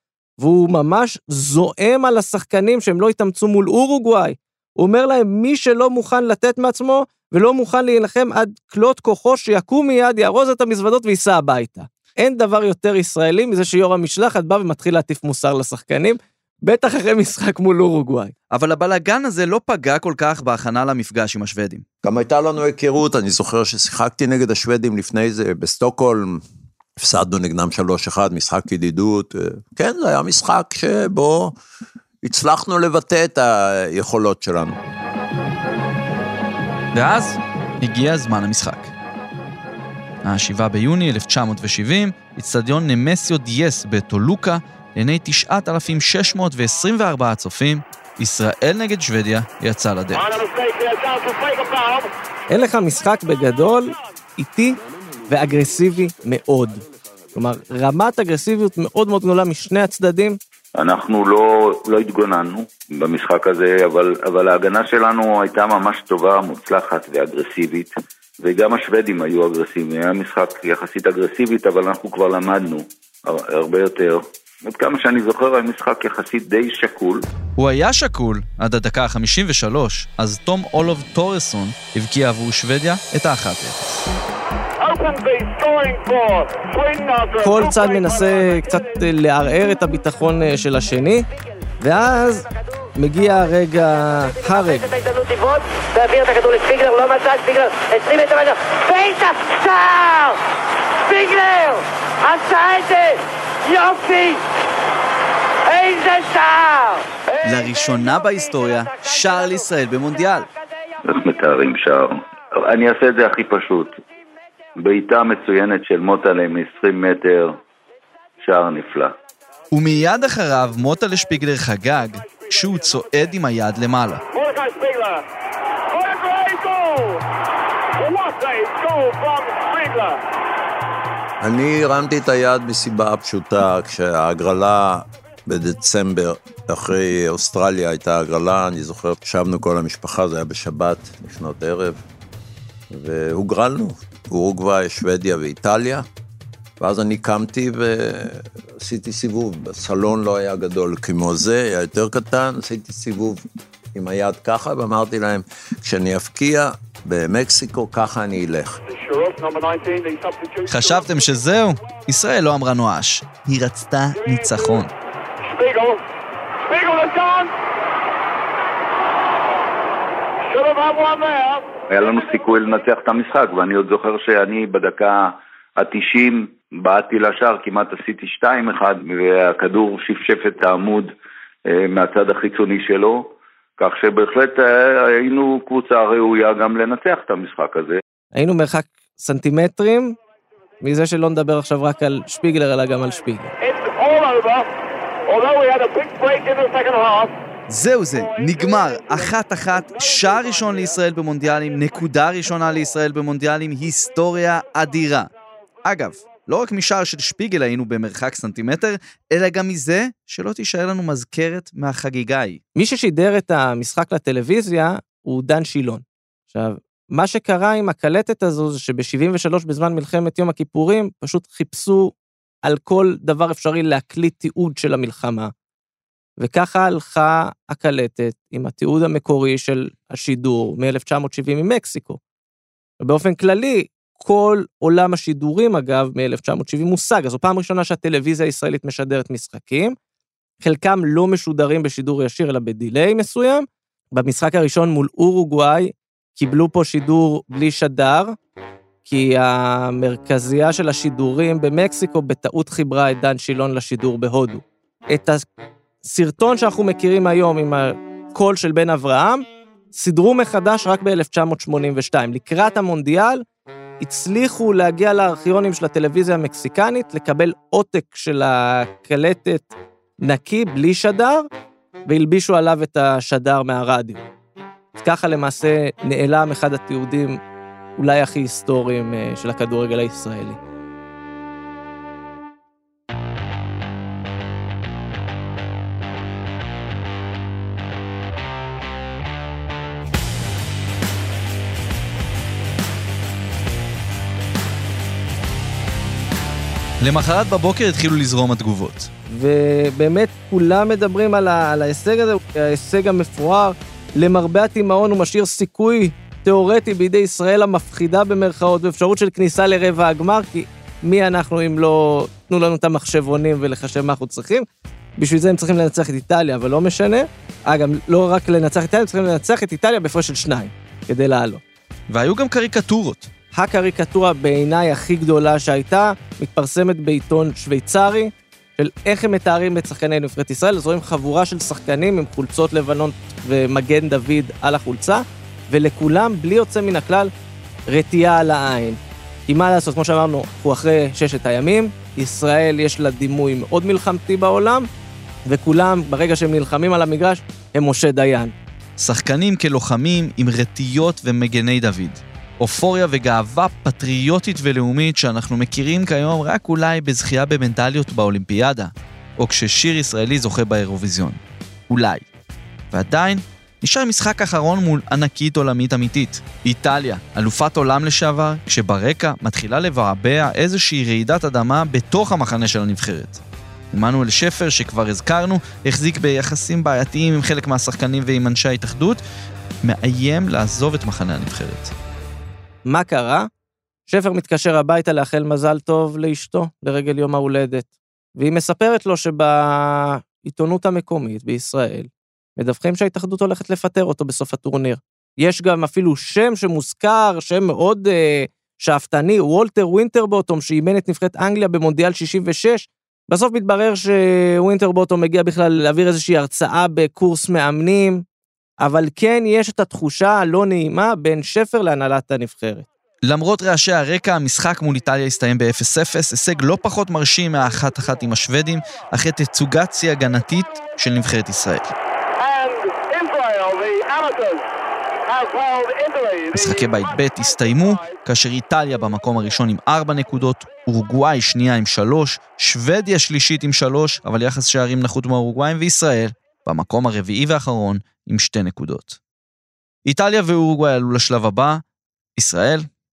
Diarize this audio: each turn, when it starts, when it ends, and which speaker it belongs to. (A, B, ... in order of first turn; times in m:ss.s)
0:00.4-0:18.3 A
0:18.5-0:21.8 B
0:22.0-0:26.4 C
0:27.0-0:31.6 C
0:32.2-0:34.8 C
0:36.9-0:38.9 B
0:40.2-0:50.4 B
0:50.3-0:52.1 D
0:52.5-0:54.8 A
0:55.3-0:56.8 A
0:57.4-1:00.4 A
1:00.8-1:17.3 E
1:17.6-1:24.0 B
1:24.8-1:27.8 D
1:27.4-1:31.2 A
1:31.8-1:32.4 A
1:33.0-1:34.9 A
1:34.4-1:40.4 D
1:41.0-1:44.4 D
1:45.7-1:47.0 D
1:47.4-1:50.5 B
1:51.0-1:54.0 E
1:54.8-1:57.6 E
1:58.4-1:59.1 E
1:59.7-2:04.2 B
2:04.4-2:05.2 D
2:05.9-2:07.2 D
2:08.0-2:10.2 D
2:11.4-2:22.0 C
2:22.9-2:26.1 C
2:26.8-2:33.4 C
2:33.9-2:38.8 C
2:38.9-2:40.7 D
2:40.7-2:44.9 B
2:45.4-2:46.0 D
2:46.7-2:47.5 D
2:50.5-2:51.6 D
2:51.9-3:01.1 E
3:01.7-3:08.0 E
3:08.4-3:10.2 A
3:10.8-3:13.5 A
3:13.6-3:14.7 D
3:15.3-3:17.3 D
3:17.7-3:25.3 B
3:25.8-3:32.6 B
3:32.8-3:45.5 A
3:46.4-3:52.2 A
3:53.0-4:00.0 A
4:00.6-4:08.4 A
4:09.0-4:15.4 A
4:16.0-4:23.4 A
4:24.0-4:31.5 A
4:32.1-4:34.2 A
4:35.0-4:37.4 A
4:38.0-4:40.6 A
4:57.0-4:59.1 B
4:59.3-5:14.7 A
5:15.2-5:21.6 A
5:22.1-5:23.3 B
5:23.6-5:37.3 A
5:37.9-5:44.9 A
5:45.5-5:48.5 A
5:49.0-6:02.3 B
6:02.9-6:13.4 B
6:13.9-6:19.2 B
6:19.8-6:21.9 B
6:22.9-6:23.5 A
6:24.1-6:48.2 A
6:48.8-6:52.9 A
6:53.2-7:02.0 B
7:02.4-7:04.6 D
7:05.3-7:06.5 D
7:06.5-7:19.2 B
7:20.0-7:21.8 B
7:22.4-7:22.9 B